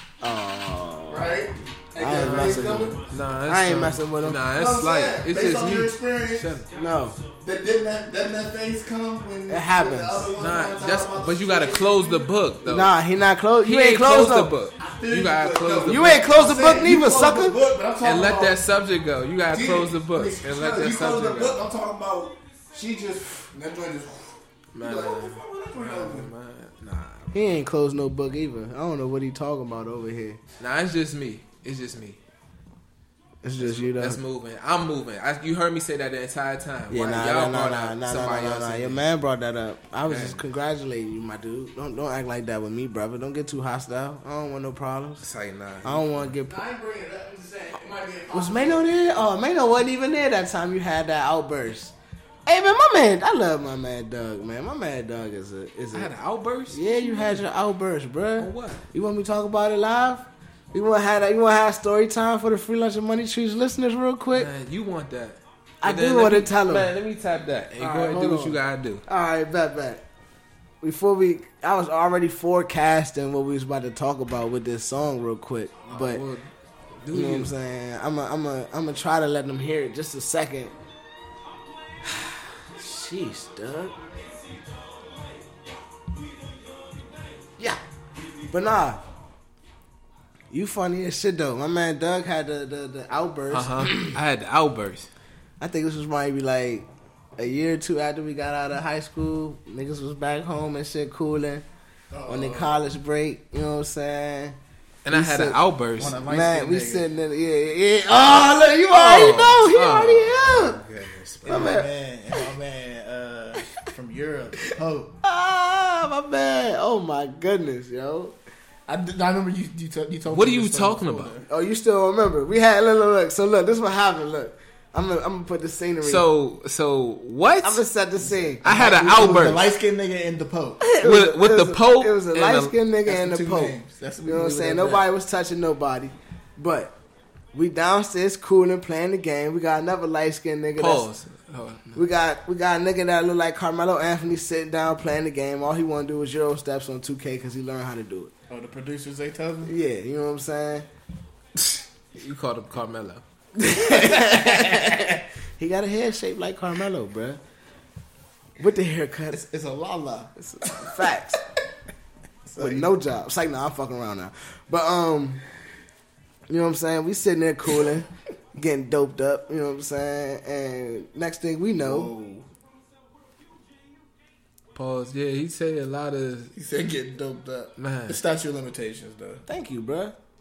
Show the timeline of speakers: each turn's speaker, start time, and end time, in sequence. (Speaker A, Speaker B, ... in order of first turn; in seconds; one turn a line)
Speaker A: 0.2-1.5
Speaker B: 1.1-3.0
Speaker A: 2.0-4.4
Speaker C: 2.1-6.7
Speaker B: 4.5-6.6
Speaker A: 6.8-7.2
Speaker B: 7.3-12.3
Speaker A: 9.5-10.3
Speaker C: 10.4-12.9
Speaker A: 12.7-14.6
Speaker C: 13.6-16.3
Speaker B: 14.8-18.6
Speaker A: 15.9-17.6
Speaker C: 18.0-21.6
Speaker B: 19.5-26.3
Speaker C: 24.7-27.4
Speaker A: 27.3-30.4
Speaker C: 30.6-32.2
Speaker A: 33.4-34.2
Speaker C: 33.6-39.0
Speaker A: 36.9-45.3
Speaker C: 40.1-40.4
Speaker C: 45.2-46.3
Speaker A: 45.8-46.6
Speaker B: 46.4-49.0
Speaker A: 48.3-51.9
Speaker A: 52.5-56.1
Speaker C: 55.9-57.5
Speaker A: 56.7-64.5
Speaker C: 58.4-58.9
Speaker C: 64.3-69.0
Speaker A: 65.8-66.9
Speaker A: 67.8-70.0
Speaker A: 70.8-76.2
Speaker C: 75.9-76.5
Speaker C: 77.0-77.5
Speaker A: 77.1-80.7
Speaker A: 82.0-84.0
Speaker A: 88.5-89.0
Speaker A: 90.5-94.2
Speaker C: 93.5-95.1
Speaker A: 95.6-101.7
Speaker B: 102.1-102.9
Speaker A: 102.3-104.6
Speaker C: 105.0-106.2
Speaker A: 105.1-105.6
Speaker B: 106.0-107.1
Speaker A: 106.3-110.8
Speaker C: 108.9-111.8
Speaker A: 111.5-111.9
Speaker B: 111.5-115.2
Speaker A: 115.2-118.3
Speaker B: 118.9-121.5
Speaker C: 120.3-121.4
Speaker A: 121.5-126.3
Speaker C: 126.0-127.8
Speaker A: 127.6-129.5
Speaker B: 128.2-130.8
Speaker C: 128.6-129.6
Speaker A: 130.8-137.0
Speaker C: 131.0-132.7
Speaker B: 133.1-135.1
Speaker A: 137.5-141.1
Speaker C: 140.8-142.0
Speaker A: 141.9-148.3
Speaker B: 148.5-149.7
Speaker A: 149.7-150.9
Speaker C: 152.2-153.2
Speaker A: 153.6-157.4
Speaker B: 153.8-155.2
Speaker A: 158.6-159.4
Speaker B: 159.3-161.2
Speaker A: 160.4-161.4
Speaker B: 162.5-162.9
Speaker A: 162.6-165.4
Speaker A: 166.5-172.1
Speaker B: 171.8-172.5
Speaker C: 174.7-176.5
Speaker B: 176.6-179.4
Speaker C: 177.8-178.2
Speaker A: 179.5-180.2